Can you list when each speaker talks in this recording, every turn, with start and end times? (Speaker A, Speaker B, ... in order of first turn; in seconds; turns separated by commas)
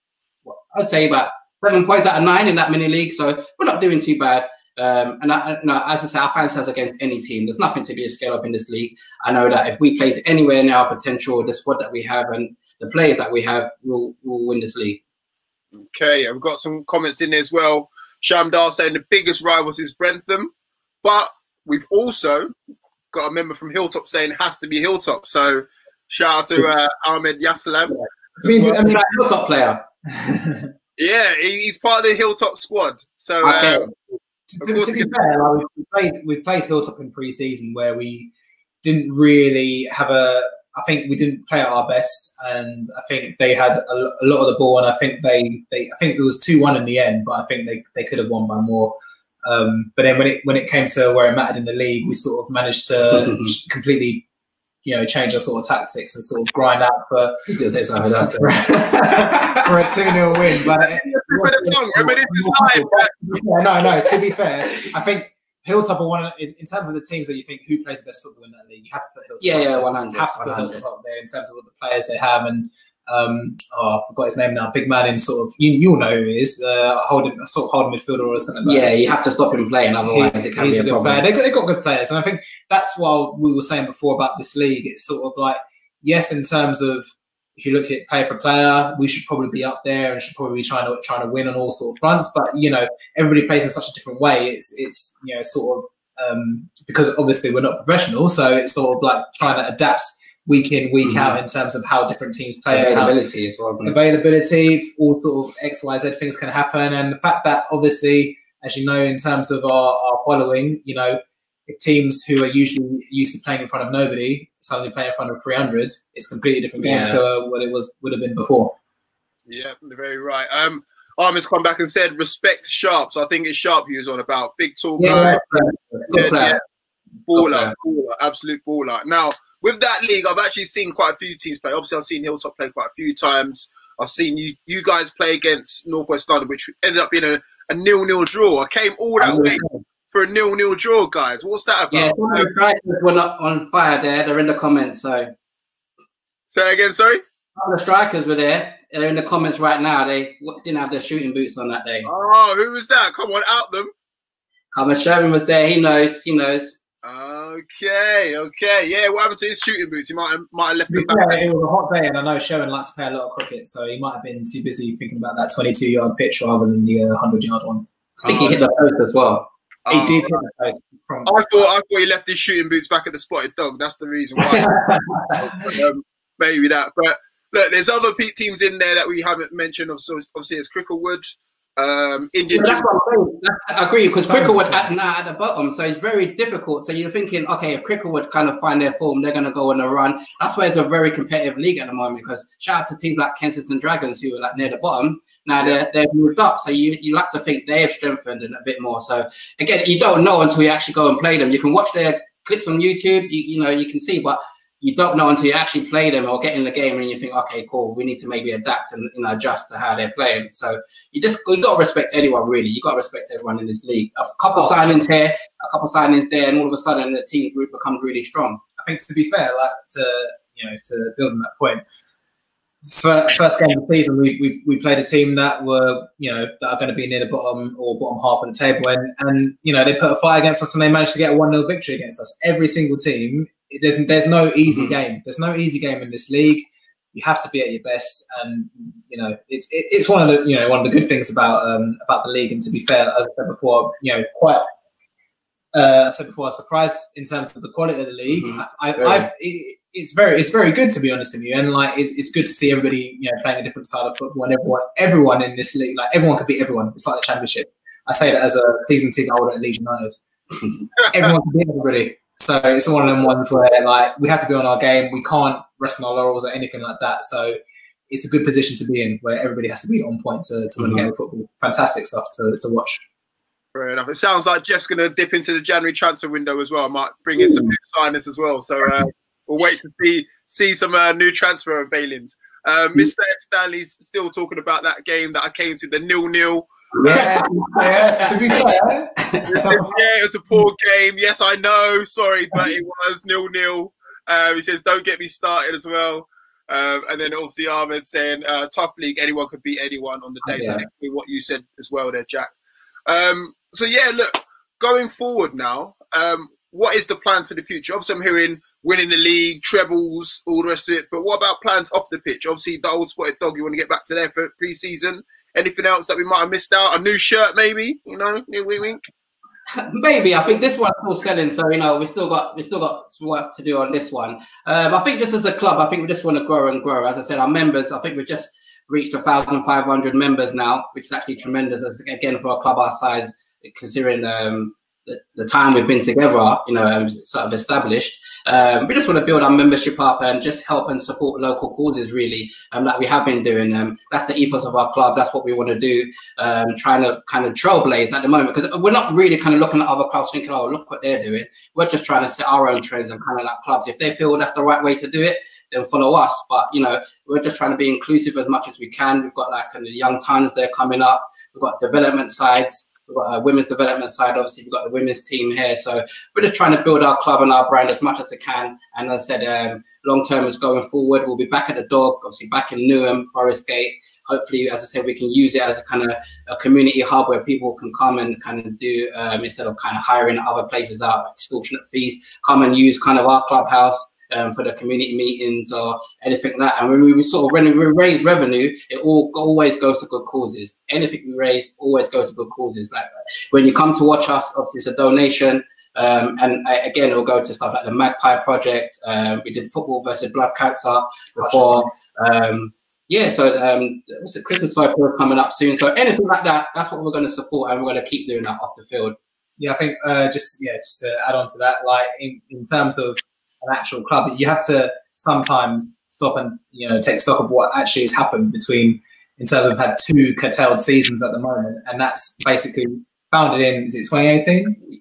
Speaker A: 0.5-15.0, Speaker B: 15.8-20.5, Speaker B: 21.0-22.5, Speaker B: 23.1-27.9, Speaker A: 27.9-29.8, Speaker C: 28.4-29.0, Speaker C: 30.1-30.7, Speaker B: 31.0-33.9, Speaker A: 33.4-33.9, Speaker C: 34.5-38.3, Speaker B: 34.6-35.1, Speaker C: 38.8-54.2, Speaker A: 53.1-53.5, Speaker C: 54.8-57.6, Speaker A: 57.5-59.5, Speaker C: 58.2-78.9, Speaker B: 60.8-63.1, Speaker A: 69.4-70.8, Speaker A: 78.6-81.2, Speaker C: 80.0-103.1, Speaker A: 101.0-101.4, Speaker A: 102.7-104.0, Speaker C: 103.8-118.8, Speaker A: 116.8-117.2, Speaker B: 119.5-125.4, Speaker A: 125.0-126.6, Speaker B: 126.1-126.6, Speaker B: 127.3-142.5, Speaker A: 127.3-127.7, Speaker A: 139.2-139.8, Speaker A: 141.9-145.3, Speaker B: 146.5-147.2, Speaker A: 147.6-152.1, Speaker B: 152.1-153.9, Speaker A: 154.7-156.8, Speaker B: 157.0-161.4, Speaker C: 160.9-167.9, Speaker A: 168.2-169.5, Speaker B: 168.2-168.6, Speaker B: 169.8-170.3, Speaker C: 169.9-171.7, Speaker B: 171.2-174.7, Speaker A: 174.6-175.0, Speaker B: 175.4-182.8, Speaker A: 182.5-218.6, Speaker C: 184.1-184.9, Speaker C: 214.5-215.0, Speaker C: 218.8-221.8, Speaker C: 222.9-244.7, Speaker A: 234.7-234.9, Speaker C: 245.7-260.2, Speaker A: 248.3-249.3, Speaker C: 261.1-267.6, Speaker C: 268.1-273.0, Speaker A: 270.8-271.1, Speaker B: 273.7-287.3, Speaker A: 277.4-277.7, Speaker A: 286.9-288.3, Speaker C: 287.0-290.0, Speaker B: 289.5-302.5, Speaker A: 300.5-300.8, Speaker B: 303.1-319.0, Speaker A: 319.7-409.1, Speaker C: 401.4-401.9, Speaker C: 409.6-424.8